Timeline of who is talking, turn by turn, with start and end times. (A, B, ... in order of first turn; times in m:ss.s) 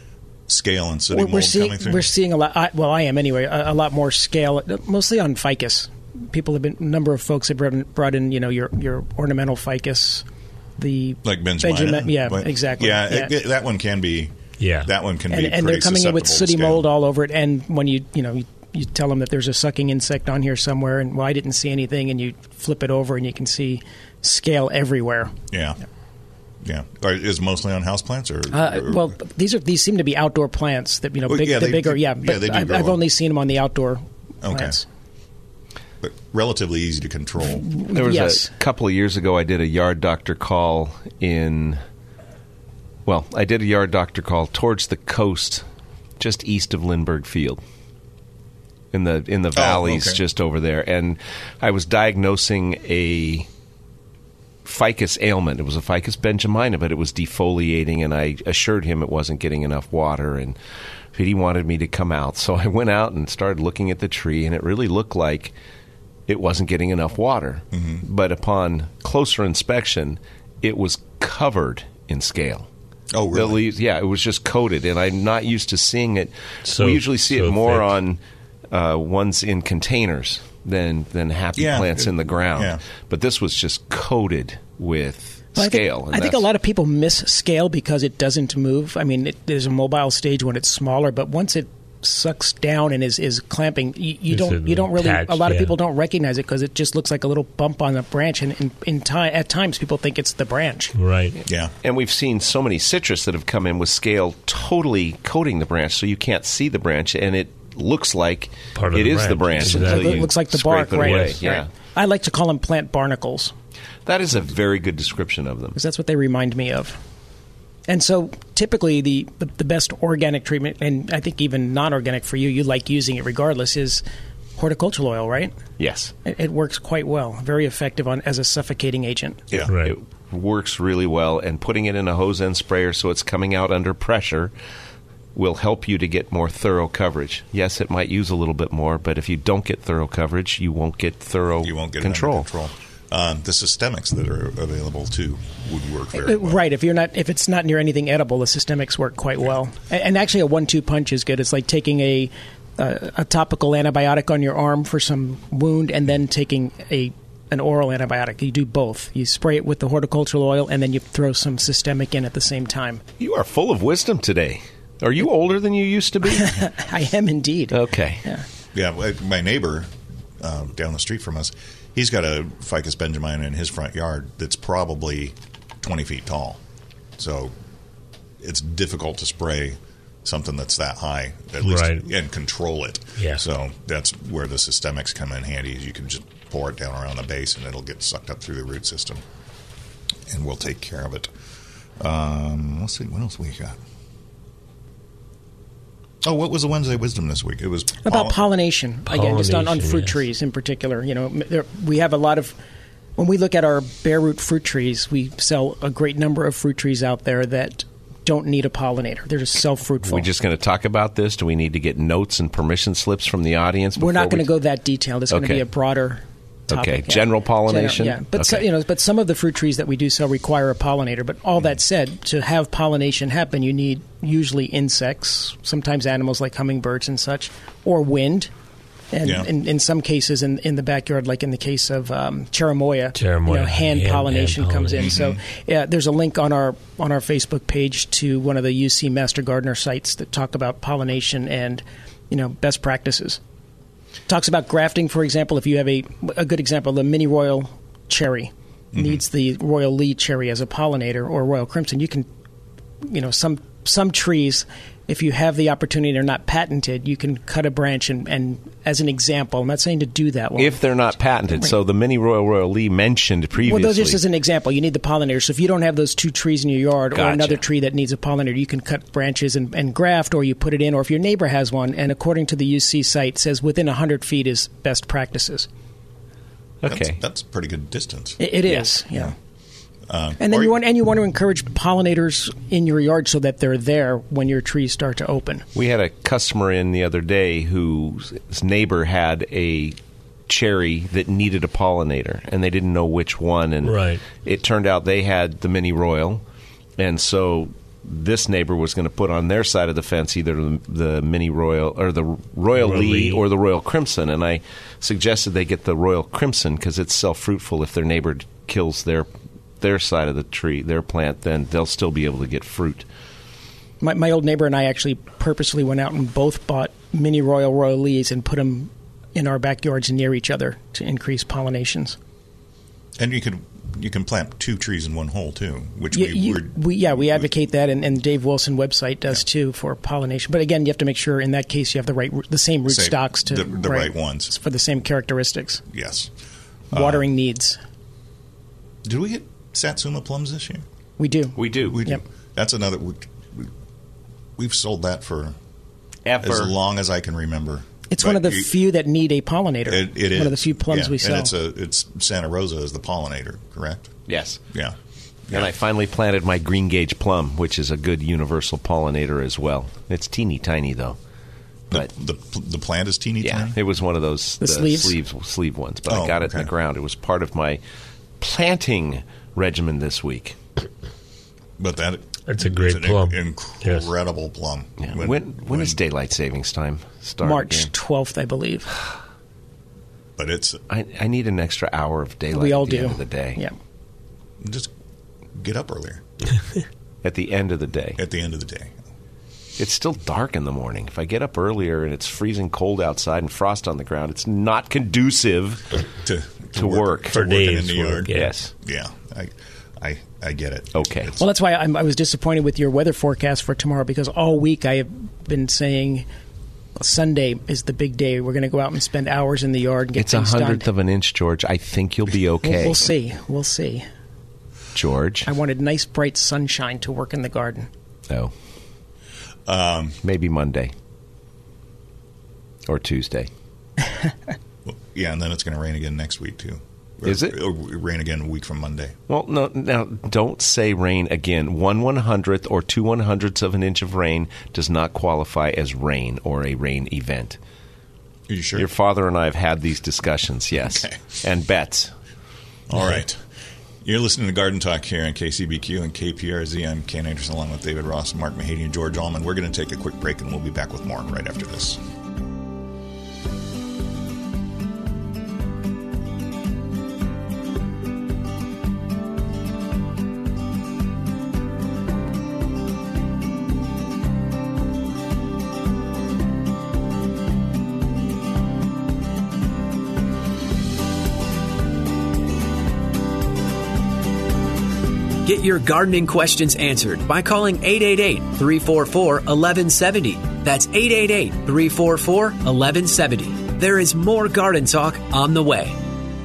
0:00.5-0:02.1 A
0:01.1-0:10.2 B
0:10.8-0:13.3 B
0:11.2-0:16.9 A
0:14.6-0:14.9 C
0:15.3-0:25.3 B
0:25.5-0:25.8 A
0:26.6-0:29.1 A
0:28.5-0:34.8 B
0:31.2-0:33.0 A
0:34.4-0:34.8 A
0:36.0-0:37.6 A
0:37.4-0:38.5 B
0:37.9-0:41.8 D
0:43.0-0:45.6 D
0:46.2-0:47.6 D
0:48.9-0:53.5 D
0:49.5-0:50.2 A
0:54.6-1:00.6 D
1:01.1-1:05.5 D
1:06.3-1:12.7 D
1:07.7-1:08.0 A
1:13.1-1:13.6 A
1:13.3-1:18.2 D
1:16.6-1:17.9 C
1:18.7-1:26.5 D
1:21.6-1:22.8 A
1:25.6-1:40.9 B
1:34.3-1:35.8 C
1:40.9-1:41.4 C
1:41.4-1:41.7 A
1:41.8-1:51.7 D
1:48.8-1:50.3 C
1:49.6-1:53.5 B
1:50.9-1:51.4 C
1:54.0-1:55.8 D
1:55.7-1:57.0 B
1:57.9-2:04.0 B
2:04.6-2:05.5 B
2:05.8-2:06.1 D
2:06.2-2:09.4 B
2:09.7-2:09.9 C
2:09.8-2:14.5 D
2:15.3-2:22.5 D
2:21.6-2:26.6 A
2:26.1-2:43.0 B
2:43.2-2:46.6 D
2:46.3-2:48.4 B
2:47.7-2:48.2 D
2:48.7-2:56.6 A
2:57.2-2:57.5 A
2:58.4-3:09.2 A
3:01.6-3:02.0 C
3:10.3-3:11.3 A
3:12.0-3:13.8 A
3:16.2-3:18.4 A
3:18.0-3:22.6 B
3:19.1-3:20.2 C
3:23.2-3:30.3 B
3:30.0-3:34.6 D
3:34.0-3:48.5 B
3:35.3-3:35.6 D
3:36.7-3:38.6 D
3:49.1-4:03.4 B
3:49.2-3:49.5 A
3:53.1-3:55.2 C
3:55.0-3:55.4 A
4:04.3-4:12.2 B
4:08.9-4:09.2 A
4:13.0-4:20.8 B
4:20.6-4:24.2 D
4:23.6-4:35.7 B
4:27.1-4:27.6 D
4:36.8-4:37.2 D
4:36.8-4:38.4 A
4:38.4-4:39.3 B
4:40.1-4:40.8 A
4:40.4-4:45.6 B
4:45.7-4:50.0 D
4:50.5-4:56.4 D
4:53.8-4:54.2 C
4:57.0-5:09.3 D
5:02.8-5:03.4 C
5:09.8-5:13.0 D
5:14.0-5:22.2 B
5:23.2-5:27.5 A
5:26.1-5:35.8 B
5:32.9-5:34.5 A
5:35.9-5:36.3 A
5:36.9-5:37.2 A
5:36.9-5:37.8 B
5:39.0-5:40.8 A
5:41.2-5:42.2 B
5:41.6-5:42.0 D
5:41.9-5:43.7 A
5:44.6-5:45.6 A
5:46.2-5:46.7 D
5:46.4-5:48.7 A
5:48.1-5:51.5 B
5:49.8-5:54.1 A
5:54.3-5:54.6 D
5:54.7-5:54.9 A
5:55.5-6:01.2 D
6:01.9-6:03.8 A
6:03.4-6:07.8 D
6:04.6-6:05.2 B
6:06.1-6:06.7 A
6:08.4-6:10.6 D
6:11.8-6:16.0 A
6:12.5-6:14.1 C
6:15.0-6:17.9 D
6:17.4-6:18.9 B
6:20.4-6:20.8 A
6:20.9-6:23.6 D
6:22.5-6:23.7 B
6:24.6-6:24.9 A
6:25.5-6:26.2 A
6:27.2-6:28.2 D
6:28.2-6:29.0 A
6:29.8-6:36.0 D
6:36.2-6:38.3 A
6:36.7-6:37.4 D
6:37.3-6:38.5 C
6:38.3-6:38.7 D
6:38.8-6:41.4 A
6:40.9-6:41.3 D
6:41.4-6:46.2 B
6:47.0-6:50.8 B
6:50.2-6:53.1 D
6:52.6-6:54.0 B
6:54.9-6:55.5 D
6:55.4-6:57.9 B
6:59.7-7:00.2 A
7:00.2-7:00.9 D
7:02.9-7:03.5 D
7:04.8-7:09.2 A
7:07.2-7:07.6 D
7:09.3-7:17.6 D
7:18.5-7:18.9 A
7:18.8-7:22.1 D
7:20.9-7:21.1 A
7:22.9-7:23.4 A
7:24.0-7:32.0 A
7:55.4-8:06.0 E